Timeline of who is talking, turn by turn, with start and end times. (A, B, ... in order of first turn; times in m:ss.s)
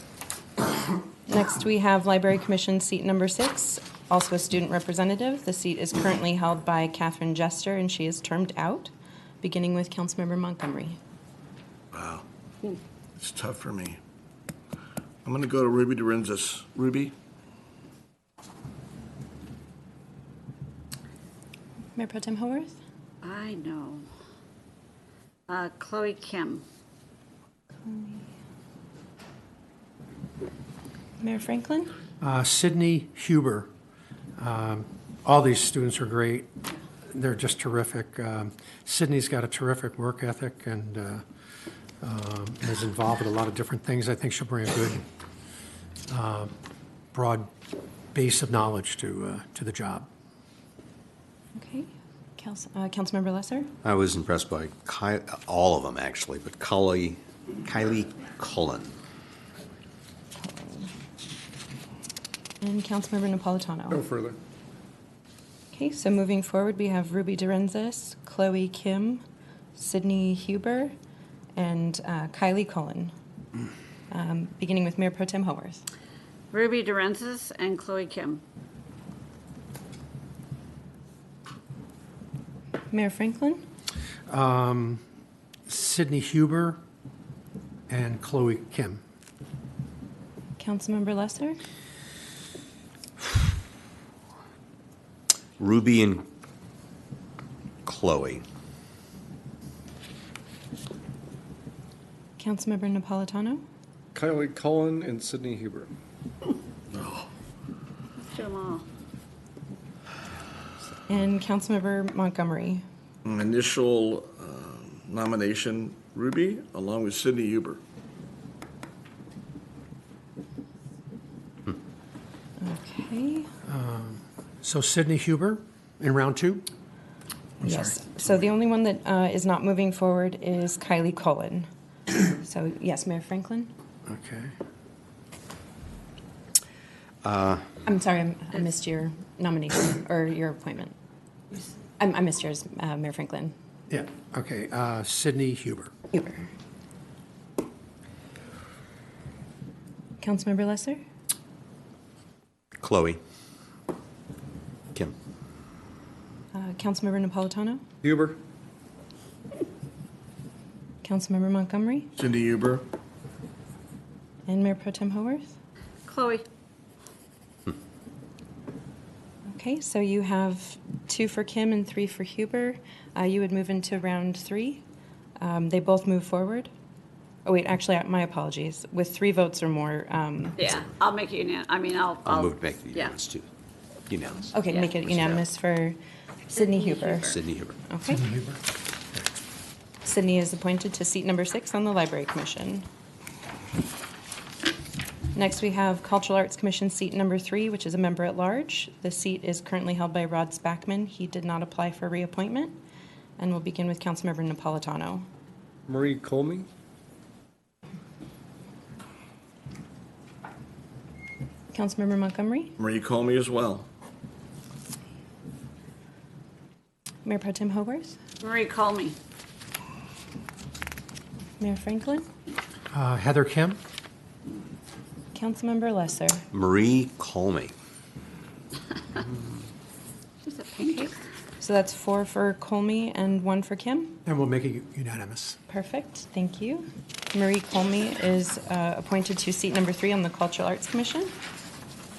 0:01.3-0:11.0 A
0:11.9-0:12.2 B
0:13.2-0:14.0 B
0:15.2-0:17.2 B
0:22.0-0:22.8 A
0:23.2-0:24.1 C
0:25.5-0:26.6 C
0:27.8-0:28.3 A
0:31.2-0:31.9 A
0:32.2-0:33.7 D
0:34.4-0:36.5 D
0:37.1-0:41.2 D
0:42.0-0:45.1 D
0:46.1-0:46.5 D
0:47.1-0:47.5 D
0:48.1-0:50.1 D
0:51.6-0:53.7 A
0:53.8-0:59.0 E
1:00.4-1:00.9 A
1:02.6-1:04.0 A
1:03.9-1:04.4 F
1:05.7-1:09.2 A
1:09.7-1:11.0 A
1:11.6-1:13.1 A
1:14.1-1:15.8 A
1:16.5-1:18.4 C
1:22.9-1:23.6 A
1:24.3-1:25.0 D
1:25.7-1:26.8 D
1:27.9-1:29.0 D
1:30.6-1:31.6 A
1:35.6-1:36.3 E
1:37.8-1:38.4 E
1:42.4-1:43.6 A
1:44.2-1:45.9 F
1:46.9-1:47.3 B
1:48.2-1:48.8 C
1:51.1-1:52.8 A
1:53.2-1:57.8 B
2:02.6-2:03.5 A
2:03.7-2:06.7 D
2:07.6-2:13.7 A
2:14.1-2:14.5 D
2:17.2-2:17.7 E
2:17.8-2:21.0 A
2:22.0-2:23.5 A
2:23.9-2:25.9 D
2:26.1-2:26.4 A
2:30.2-2:31.0 A
2:32.8-2:33.2 E
2:36.5-2:37.8 A
2:38.0-2:38.4 F
2:41.0-2:42.1 A
2:42.2-2:42.8 B
2:44.5-2:45.6 A
2:46.1-2:46.4 C
2:49.5-2:54.8 A
2:55.4-2:56.7 A
2:57.4-3:00.6 A
3:00.6-3:03.2 C
3:02.2-3:03.5 E
3:04.1-3:05.4 E
3:04.5-3:06.0 A
3:06.5-3:07.4 A
3:06.6-3:07.4 C
3:07.2-3:07.8 E
3:07.9-3:08.3 A
3:08.1-3:08.6 D
3:10.0-3:12.9 A
3:15.3-3:22.8 A
3:23.4-3:25.3 A
3:25.9-3:26.7 F
3:31.7-3:32.8 A
3:32.8-3:33.9 B
3:37.2-3:38.2 A
3:38.4-3:39.2 C
3:41.6-3:42.3 A
3:42.9-3:43.8 D
3:45.3-3:46.4 A
3:46.5-3:47.7 E
3:50.4-3:51.2 C
3:51.6-3:54.2 A
3:54.3-3:55.6 D
3:55.7-4:01.3 A